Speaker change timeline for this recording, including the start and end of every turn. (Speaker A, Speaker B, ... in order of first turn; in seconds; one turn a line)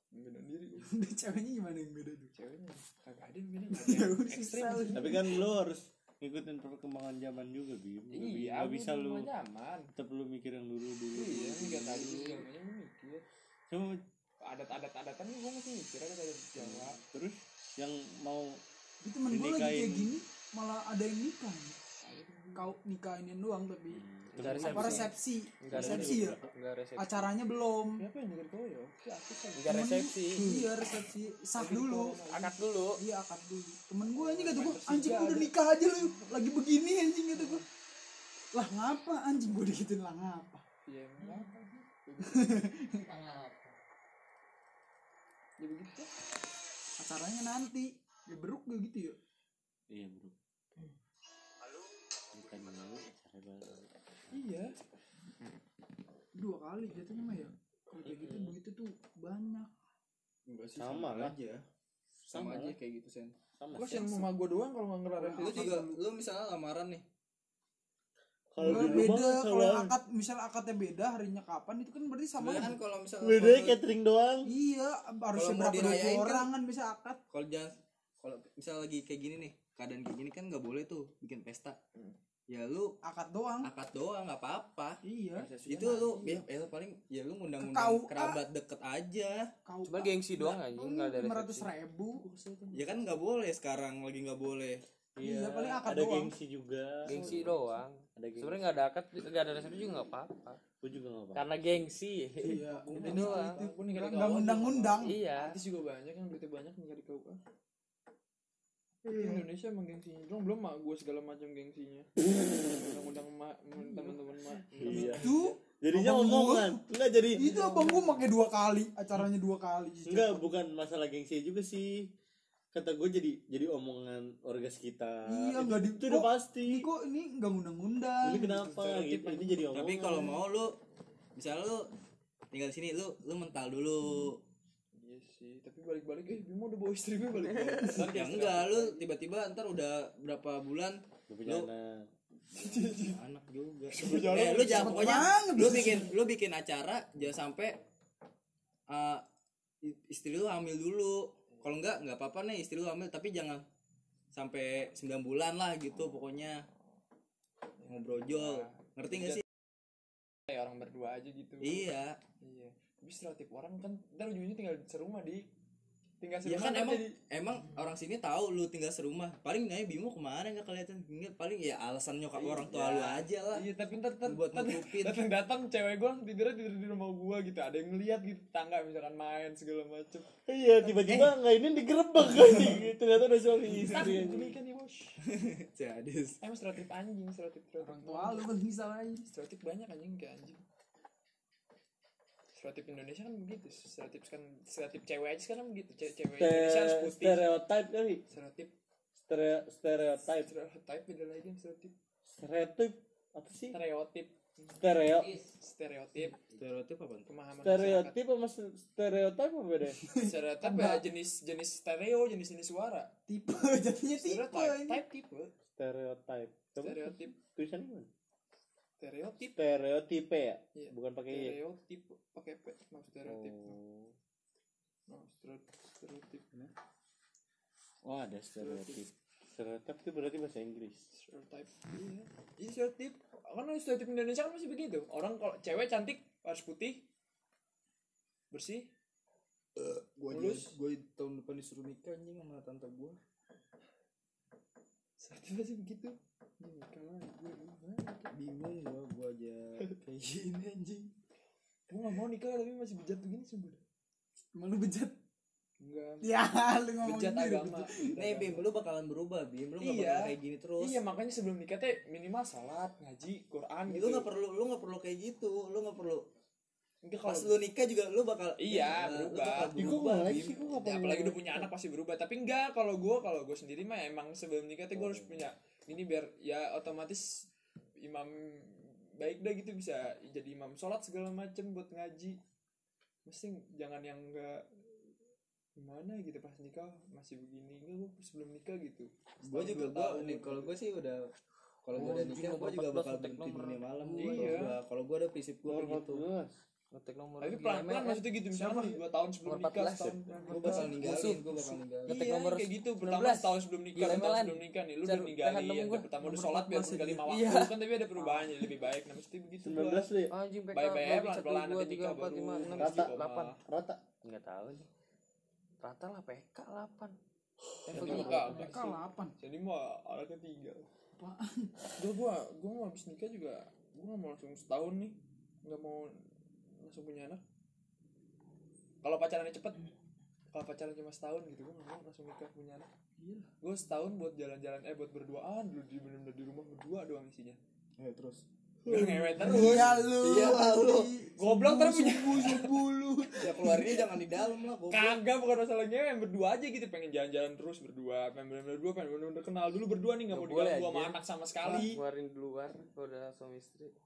Speaker A: 0.1-0.9
Speaker B: 0.9-2.3
Speaker A: 2.3-5.2
Speaker B: 3.7-5.4
Speaker C: 5.0-9.3
Speaker A: 8.1-9.9
Speaker C: 9.9-12.4
Speaker A: 11.1-13.2
Speaker C: 13.7-14.0
Speaker A: 14.4-17.0
Speaker C: 16.6-18.6
Speaker B: 19.0-21.8
Speaker C: 19.3-20.2
Speaker A: 22.0-22.8
Speaker B: 22.6-26.4
Speaker C: 23.9-25.1
Speaker D: 24.4-27.3
Speaker C: 25.7-26.5
Speaker B: 27.0-28.1
Speaker A: 28.0-29.9
Speaker D: 29.6-30.7
Speaker B: 29.7-32.2
Speaker A: 31.5-32.6
Speaker D: 32.3-33.0
Speaker B: 33.0-37.6
Speaker A: 34.1-36.4
Speaker A: 37.4-37.6
Speaker B: 38.5-40.6
Speaker A: 40.9-42.7
Speaker B: 42.3-43.2
Speaker D: 43.3-43.7
Speaker A: 45.6-46.1
Speaker B: 47.0-49.2
Speaker C: 49.9-50.4
Speaker C: 52.3-53.9
Speaker A: 54.3-54.8
Speaker B: 56.4-59.7
Speaker C: 58.0-58.5
Speaker E: 60.5-61.6
Speaker C: 60.8-61.4
Speaker C: 62.3-62.8
Speaker E: 62.3-63.3
Speaker C: 63.6-64.3
Speaker A: 63.7-66.0
Speaker B: 65.2-65.9
Speaker E: 65.3-67.0
Speaker C: 68.5-69.9
Speaker B: 68.6-72.8
Speaker E: 68.7-69.1
Speaker E: 72.4-73.8
Speaker C: 73.2-74.5
Speaker B: 74.5-77.2
Speaker E: 75.3-76.5
Speaker E: 77.3-81.8
Speaker E: 82.5-82.9
Speaker B: 83.0-83.7
Speaker E: 83.6-85.0
Speaker B: 85.0-85.5
Speaker A: 85.4-86.5
Speaker E: 85.7-89.5
Speaker B: 87.6-88.4
Speaker B: 89.7-92.2
Speaker D: 89.8-91.7
Speaker A: 92.2-92.9
Speaker E: 92.7-94.8
Speaker C: 95.2-97.5
Speaker B: 95.2-96.3
Speaker D: 97.0-100.6
Speaker A: 97.1-97.7
Speaker C: 98.2-98.8
Speaker C: 100.8-101.7
Speaker D: 101.3-103.6
Speaker B: 102.4-105.2
Speaker A: 102.8-107.4
Speaker D: 105.0-105.6
Speaker B: 109.0-109.5
Speaker A: 109.1-115.6
Speaker C: 112.3-112.9
Speaker B: 113.8-114.1
Speaker C: 114.8-117.6
Speaker B: 114.9-120.5
Speaker A: 117.4-118.3
Speaker C: 120.0-122.1
Speaker C: 122.7-126.9
Speaker B: 125.3-128.6
Speaker C: 128.2-130.4
Speaker A: 128.4-129.6
Speaker E: 129.7-130.7
Speaker E: 131.4-131.9
Speaker E: 132.5-134.4
Speaker A: 134.9-139.1
Speaker E: 137.9-141.7
Speaker C: 141.3-142.1
Speaker A: 142.5-143.2
Speaker E: 142.6-147.8
Speaker A: 143.9-145.3
Speaker B: 144.7-146.1
Speaker E: 148.9-149.2
Speaker E: 149.8-153.6
Speaker E: 154.3-156.6
Speaker A: 157.8-159.4
Speaker E: 157.9-159.4
Speaker A: 160.5-161.9
Speaker E: 161.6-162.2
Speaker A: 162.4-165.5
Speaker A: 166.2-167.2
Speaker E: 166.4-173.7
Speaker A: 172.3-180.3
Speaker E: 174.3-175.2
Speaker C: 180.5-184.6
Speaker E: 181.0-181.3
Speaker A: 183.8-185.2
Speaker E: 185.3-186.4
Speaker A: 186.4-188.5
Speaker B: 187.8-189.3
Speaker A: 189.3-190.6
Speaker A: 192.6-197.4
Speaker C: 196.4-198.2
Speaker A: 198.3-198.7
Speaker C: 199.3-200.5
Speaker A: 200.4-201.9
Speaker C: 202.3-203.8
Speaker A: 203.7-204.8
Speaker C: 204.8-205.4
Speaker A: 205.3-206.4
Speaker E: 206.5-207.3
Speaker A: 207.3-208.2
Speaker C: 207.6-210.0
Speaker B: 210.0-211.0
Speaker A: 210.2-213.1
Speaker B: 213.3-215.0
Speaker A: 214.2-215.5
Speaker C: 215.8-218.1
Speaker A: 216.8-217.4
Speaker A: 219.0-219.6
Speaker C: 219.6-221.6
Speaker A: 220.8-223.8
Speaker C: 223.2-224.1
Speaker A: 225.1-226.7
Speaker C: 228.0-231.1
Speaker A: 228.6-229.0
Speaker A: 231.1-237.0
Speaker A: 238.5-238.9
Speaker E: 239.8-243.2
Speaker A: 240.3-240.8
Speaker A: 245.2-248.3
Speaker E: 248.3-251.1
Speaker A: 251.9-253.8
Speaker B: 254.5-255.2
Speaker A: 255.8-256.3
Speaker B: 256.2-258.1
Speaker A: 257.0-258.7
Speaker E: 258.2-261.0
Speaker A: 259.8-264.3
Speaker E: 263.9-266.2
Speaker A: 267.0-267.6
Speaker E: 267.3-270.7
Speaker A: 268.6-269.8
Speaker C: 269.7-271.7
Speaker A: 270.7-277.4
Speaker C: 274.9-275.4
Speaker A: 278.0-278.7
Speaker A: 279.2-282.4
Speaker A: 283.3-284.6
Speaker A: 285.8-290.7
Speaker E: 289.4-291.2
Speaker E: 291.8-296.2
Speaker D: 291.9-294.2
Speaker B: 294.1-294.6
Speaker A: 294.1-294.8
Speaker C: 295.6-296.6
Speaker D: 296.9-298.3
Speaker A: 297.4-301.3
Speaker B: 298.5-299.0
Speaker D: 299.4-301.5
Speaker B: 300.5-301.8
Speaker E: 300.5-302.4
Speaker D: 302.1-306.1
Speaker A: 302.1-310.1
Speaker B: 306.2-307.2
Speaker D: 307.3-308.6
Speaker C: 309.6-310.3
Speaker D: 310.3-313.6
Speaker A: 310.7-313.6
Speaker C: 312.8-314.0
Speaker D: 314.2-314.9
Speaker D: 315.8-317.1
Speaker D: 317.9-318.8
Speaker C: 317.9-318.5
Speaker A: 317.9-320.9
Speaker B: 318.0-319.3
Speaker B: 321.2-321.7
Speaker A: 322.0-326.1
Speaker A: 326.8-327.4
Speaker A: 329.0-329.9
Speaker A: 330.5-332.9
Speaker B: 333.2-333.5
Speaker A: 333.6-337.6
Speaker E: 338.0-341.1
Speaker A: 338.9-340.0
Speaker B: 339.4-344.2
Speaker A: 341.4-342.8
Speaker E: 343.4-345.2
Speaker A: 344.9-352.0
Speaker D: 350.3-353.9